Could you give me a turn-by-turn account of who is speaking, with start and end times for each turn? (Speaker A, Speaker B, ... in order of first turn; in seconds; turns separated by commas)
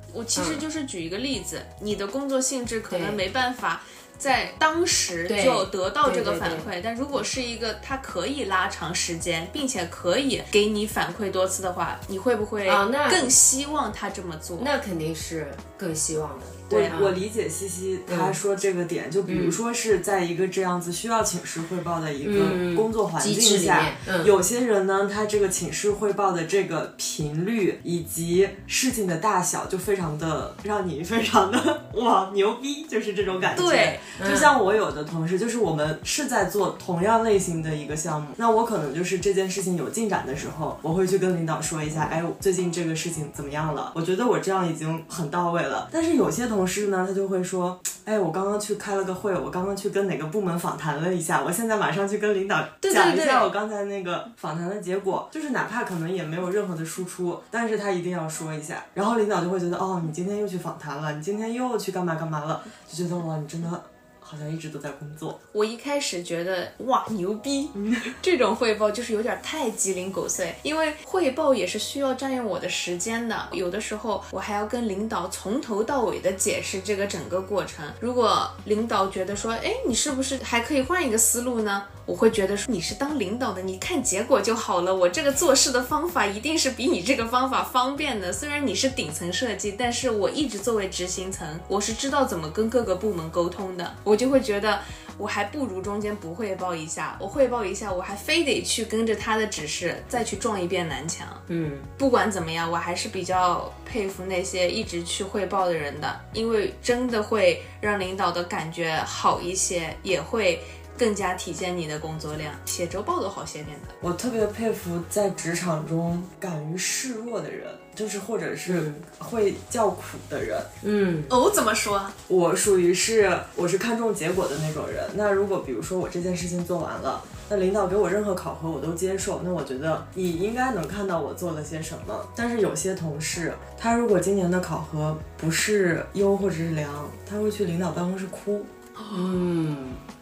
Speaker A: 0.1-14.7, Speaker B: 0.3-0.6, Speaker B: 2.9-3.2, Speaker B: 5.3-6.7, Speaker B: 12.7-13.3, Speaker B: 14.6-17.2, Speaker A: 16.7-17.0, Speaker C: 16.7-65.4, Speaker B: 18.1-18.4, Speaker B: 19.3-19.6, Speaker B: 22.2-24.3, Speaker A: 33.5-34.1, Speaker B: 34.1-34.5, Speaker A: 52.8-53.5, Speaker A: 65.5-101.4, Speaker C: 67.8-68.2, Speaker B: 101.5-101.9, Speaker A: 102.0-114.0, Speaker C: 114.0-120.7, Speaker B: 118.7-119.0, Speaker B: 120.8-121.3, Speaker A: 121.3-122.2, Speaker C: 122.3-138.7, Speaker A: 139.0-139.3, Speaker B: 139.1-140.0